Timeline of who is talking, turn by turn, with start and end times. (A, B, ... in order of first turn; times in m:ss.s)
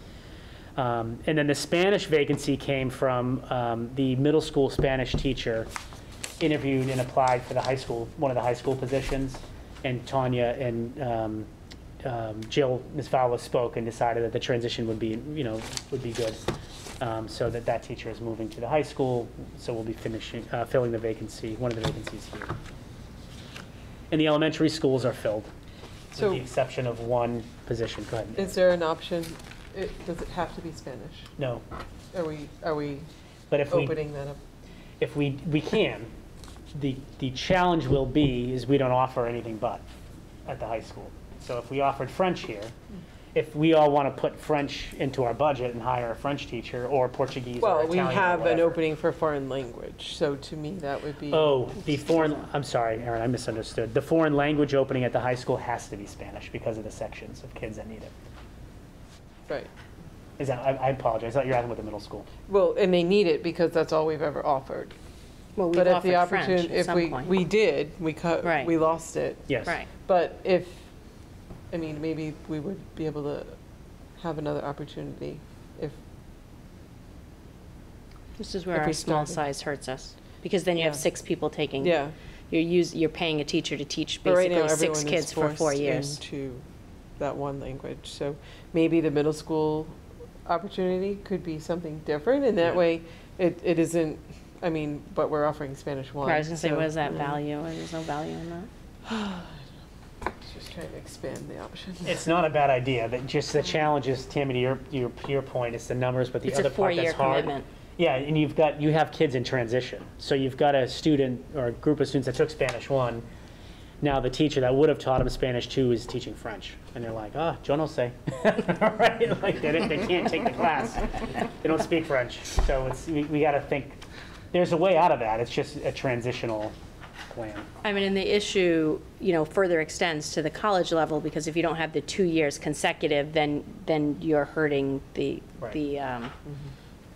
0:00.8-0:05.7 A
0:06.4-0:11.5 A
0:12.0-0:16.4 A
0:17.0-0:22.5 A
0:24.1-0:25.5 A
0:26.1-0:26.4 B
0:26.1-0:28.6 A
0:28.4-0:31.3 B
0:31.4-0:31.6 A
0:32.1-0:33.1 B
0:33.5-0:34.0 A
0:33.7-0:34.4 B
0:35.0-0:36.1 A
0:36.7-0:39.8 A
0:40.5-0:42.7 A
0:43.3-0:48.8 A
0:47.6-0:51.7 B
0:51.3-0:58.1 A
1:00.4-1:02.3 A
1:02.5-1:04.9 B
1:05.6-1:07.3 C
1:05.7-1:09.5 B
1:08.4-1:08.7 C
1:09.5-1:09.8 A
1:10.0-1:10.9 B
1:11.7-1:13.6 B
1:14.2-1:16.0 B
1:18.4-1:26.2 C
1:18.7-1:19.4 B
1:20.8-1:21.0 B
1:21.8-1:22.1 B
1:24.2-1:26.6 B
1:27.2-1:37.4 B
1:36.2-1:38.7 C
1:39.0-1:39.7 B
1:40.4-1:42.2 B
1:42.0-1:53.2 A
1:46.4-1:47.7 C
1:54.0-2:04.0 A
2:04.5-2:06.7 A
2:07.3-2:07.7 A
2:07.8-2:16.3 C